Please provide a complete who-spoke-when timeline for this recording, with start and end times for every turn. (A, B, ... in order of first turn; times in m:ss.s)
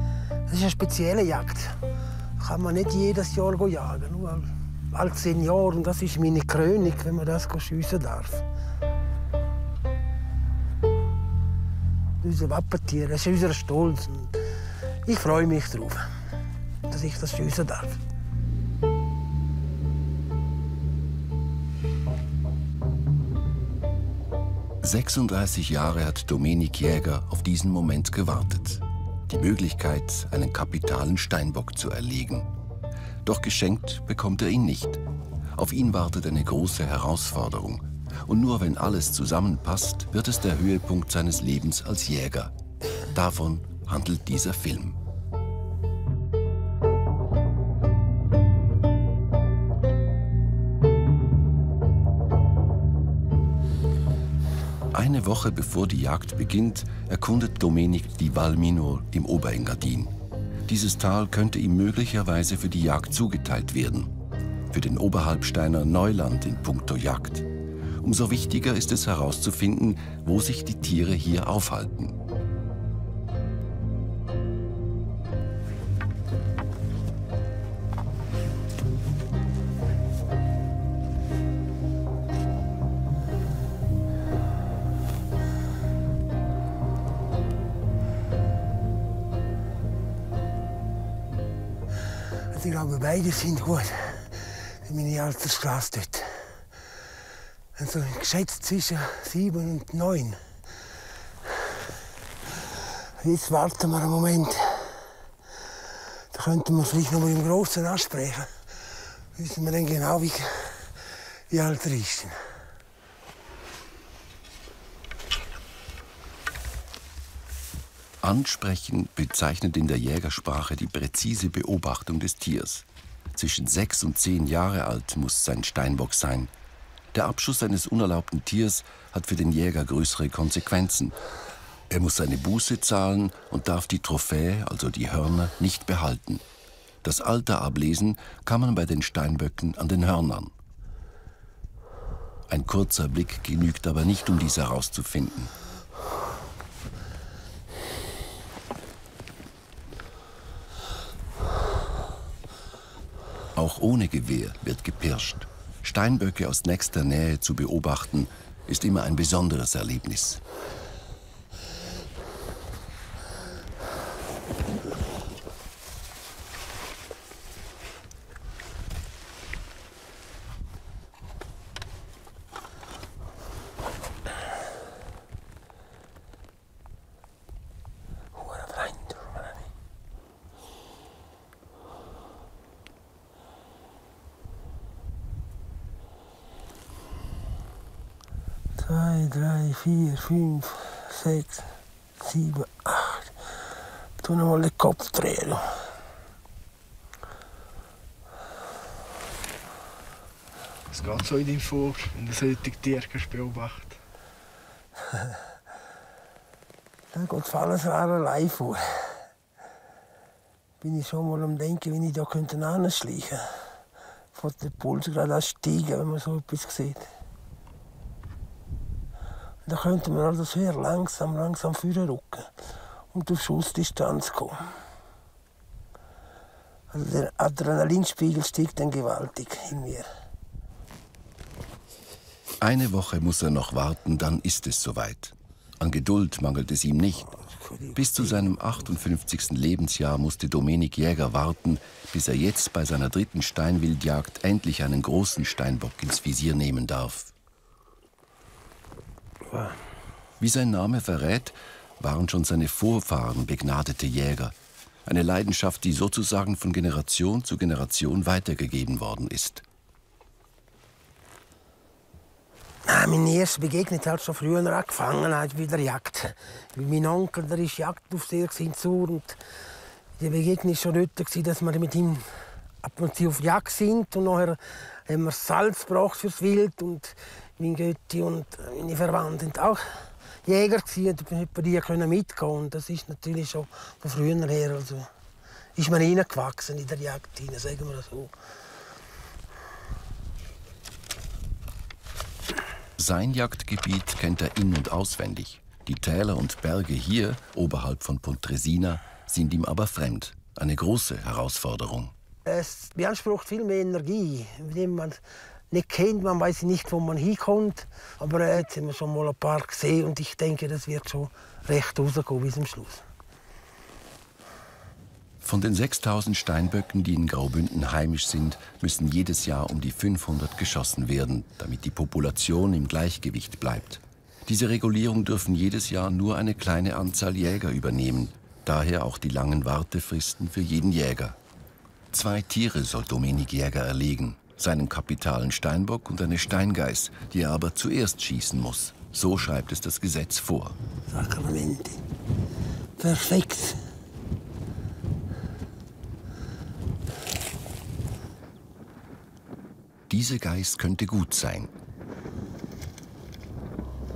0:00.5-0:01.8 A
0:02.4-0:08.4 A
0:12.2-0:14.4 A
0:15.0-0:16.1 A
0:16.9-0:18.0 A
0:24.8-0:32.5 B
0:33.2-0:35.0 B
0:35.5-0:42.5 B
0:43.1-0:45.0 B
0:54.9-1:00.1 B
1:00.7-1:04.1 B
1:04.7-1:07.5 B
1:08.0-1:12.2 B
1:32.5-1:36.5 A
1:37.8-1:40.4 A
1:42.8-1:45.1 A
1:46.3-1:48.5 A
1:49.3-1:51.0 A
1:51.5-1:52.4 A
1:58.2-2:06.5 B
2:07.1-2:11.2 B
2:11.9-2:16.4 B
2:17.0-2:20.5 B
2:22.5-2:25.5 B
2:33.5-2:40.4 B
2:58.3-2:59.6 A
3:08.8-3:11.7 A
3:12.2-3:13.3 A
3:14.2-3:15.6 A
3:20.9-3:24.0 C
3:27.1-3:29.1 A
3:30.8-3:33.4 A
3:34.3-3:37.1 A
3:39.6-3:42.5 A
3:43.1-3:44.7 A
3:46.9-3:50.1 A
3:52.6-3:57.4 B
3:57.4-3:58.7 A
3:58.0-4:07.3 B
4:09.5-4:09.8 A
4:10.4-4:14.5 B
4:15.0-4:19.6 B
4:22.8-4:29.4 A
4:30.2-4:32.3 A
4:32.8-4:39.8 A
4:40.4-4:45.1 A
4:45.8-4:48.3 A
4:53.0-5:02.1 B
5:02.4-5:13.0 A
5:15.4-5:31.4 B
5:32.1-5:40.8 B
5:41.1-5:42.0 A
5:43.0-5:43.8 A
5:50.1-5:51.7 B